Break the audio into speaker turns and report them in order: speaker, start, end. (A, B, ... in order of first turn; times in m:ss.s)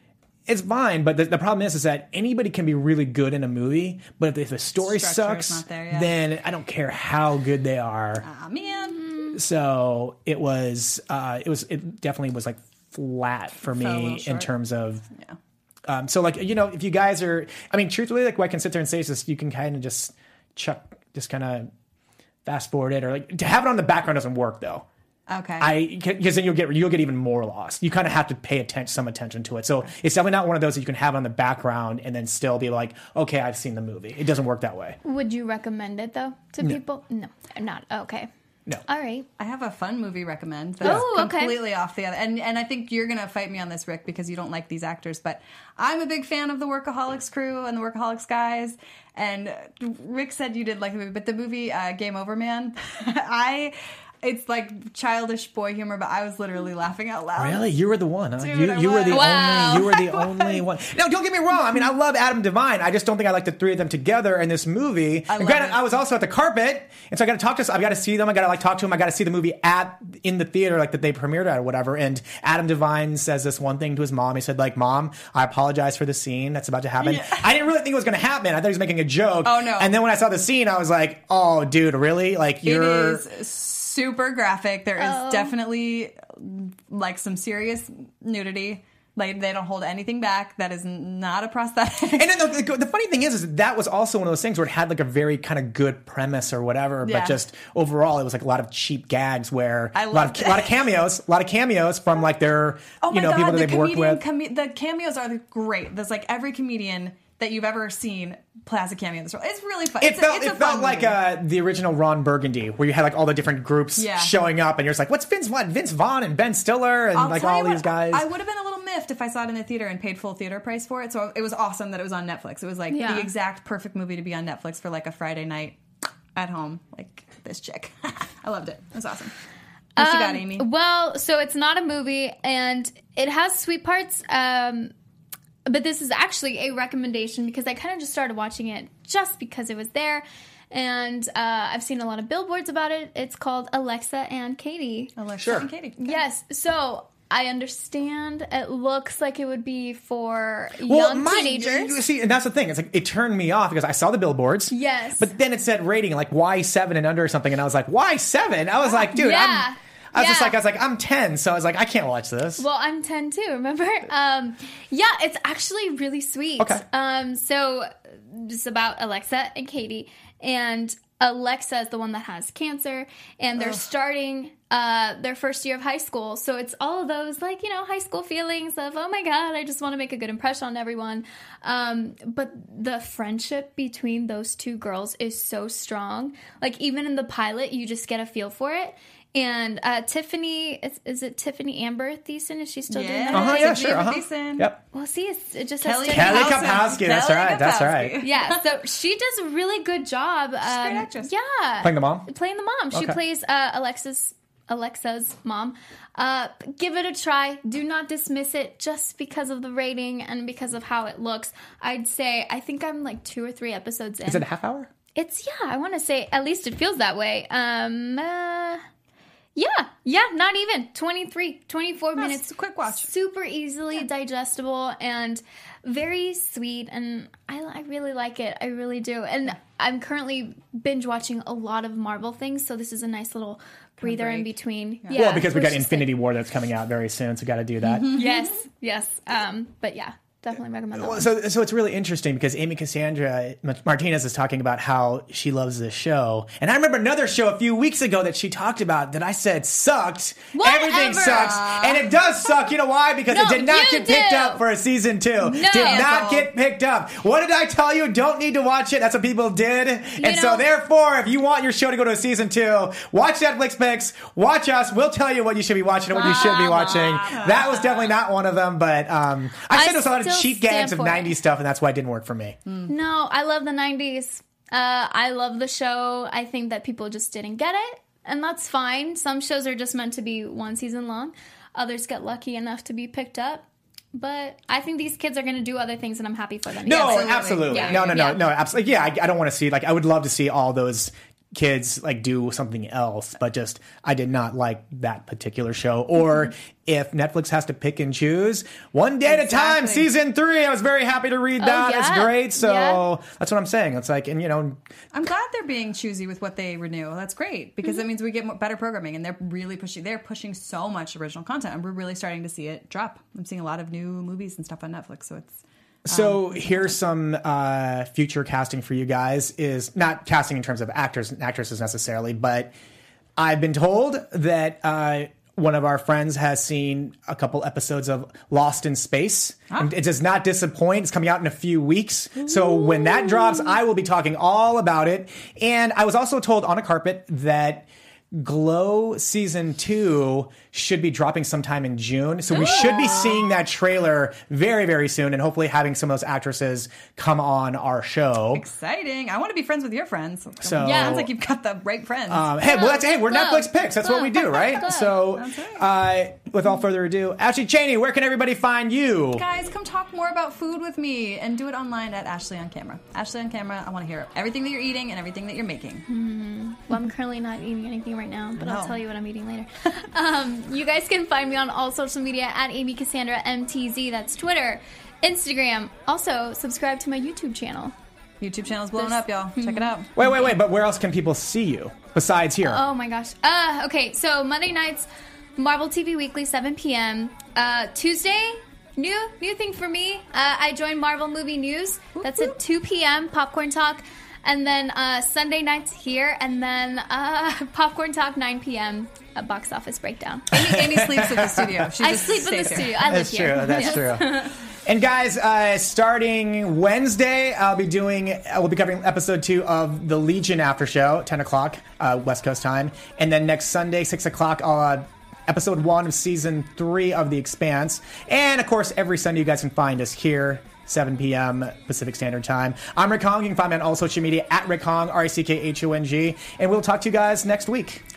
0:00.5-0:08.2 A
0:04.8-0:06.1 B
0:08.2-0:09.1 B
0:09.3-0:15.1 A
0:13.7-0:14.5 B
0:15.9-0:21.7 A
0:22.4-0:24.9 A
0:25.3-0:25.8 B
0:25.6-0:35.0 A
0:35.0-0:38.3 C
0:38.9-0:39.3 C
0:39.4-0:57.6 B
0:40.8-0:41.6 C
0:57.4-1:23.2 A
0:58.4-1:00.6 B
0:59.1-1:00.0 C
1:05.3-1:05.8 B
1:17.0-1:17.4 B
1:19.4-1:20.0 B
1:22.6-1:32.4 B
1:25.0-1:25.5 C
1:32.2-1:44.2 A
1:37.0-1:37.4 B
1:39.9-1:40.8 B
1:43.0-1:51.2 B
1:50.0-1:58.3 A
1:54.0-1:54.4 B
1:57.1-2:05.8 B
2:02.9-2:03.3 C
2:06.4-2:09.3 B
2:10.0-2:10.7 B
2:10.0-2:14.9 C
2:15.7-2:25.1 C
2:25.2-2:26.2 B
2:25.4-2:25.7 A
2:26.0-2:32.0 C
2:30.9-2:42.6 A
2:34.7-2:35.3 C
2:38.9-2:40.6 C
2:42.6-3:13.9 C
3:12.9-3:14.7 B
3:13.3-3:14.8 A
3:14.9-3:16.8 C
3:15.8-3:18.6 B
3:16.1-3:18.2 A
3:18.2-3:34.5 C
3:20.6-3:21.3 B
3:21.8-3:22.3 A
3:22.9-3:23.2 A
3:34.2-3:34.9 A
3:35.2-3:38.8 C
3:39.6-3:56.1 C
3:42.2-3:43.1 B
3:54.0-3:55.4 B
3:55.1-3:58.2 A
3:58.0-3:58.6 B
3:58.0-4:01.3 C
4:01.0-4:32.6 A
4:10.6-4:12.0 C
4:13.3-4:14.6 C
4:15.4-4:16.3 C
4:15.6-4:16.5 B
4:20.2-4:20.6 C
4:26.1-4:28.0 B
4:26.2-4:27.3 C
4:29.7-4:31.4 C
4:32.9-4:48.5 C
4:46.8-5:04.8 A
4:47.0-4:48.3 B
4:59.3-5:00.1 B
5:01.6-5:03.0 C
5:05.1-5:16.9 B
5:16.1-5:22.7 A
5:23.4-5:48.6 A
5:42.5-5:43.4 C
5:48.5-5:52.5 B
5:50.6-5:51.3 A
5:50.8-5:51.2 C
5:52.3-5:59.4 A
5:52.6-5:55.2 C
5:55.4-5:55.9 B
5:59.4-6:06.1 B
6:06.1-6:18.0 C
6:08.6-6:09.0 B
6:18.4-6:20.1 B
6:19.0-6:20.5 C
6:20.2-6:22.8 A
6:22.6-6:40.7 C
6:32.2-6:32.6 B
6:40.5-6:43.0 B
6:40.7-6:41.7 A
6:42.0-6:44.6 C
6:42.9-7:08.0 A